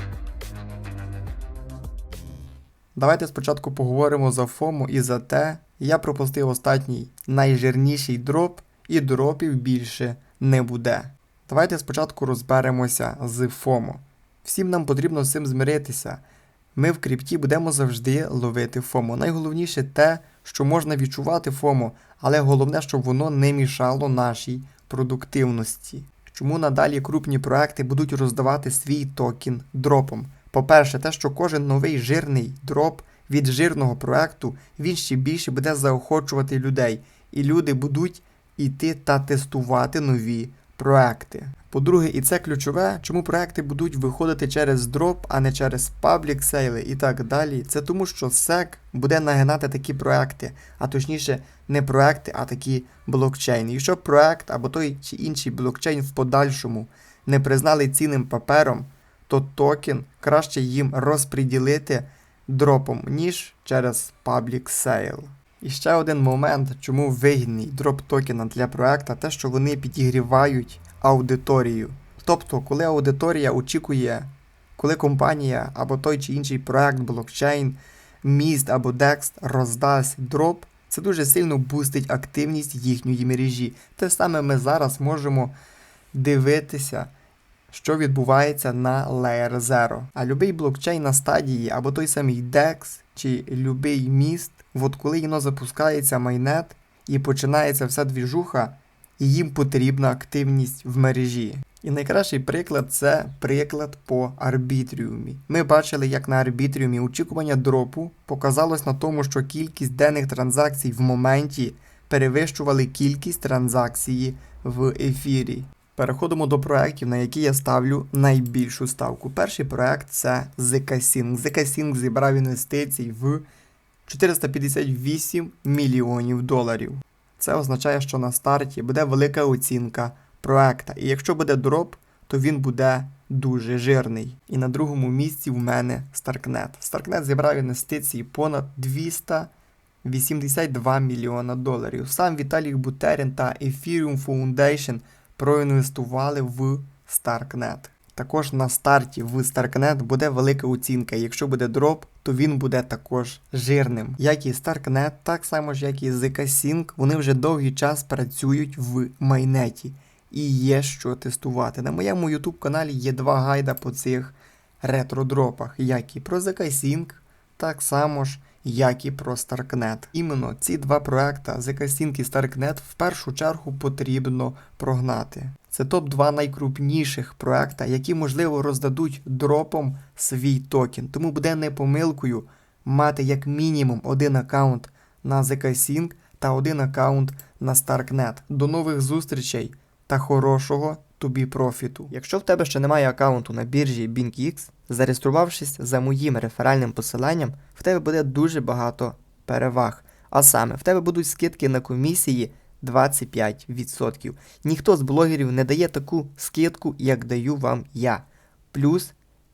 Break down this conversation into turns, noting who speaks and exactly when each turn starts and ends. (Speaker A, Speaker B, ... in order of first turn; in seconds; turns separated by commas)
Speaker A: 2.9-16.2, Speaker A: 16.7-85.5, Speaker A: 86.1-87.1, Speaker A: 87.7-123.4, Speaker A: 124.0-139.5, Speaker A: 140.0-209.1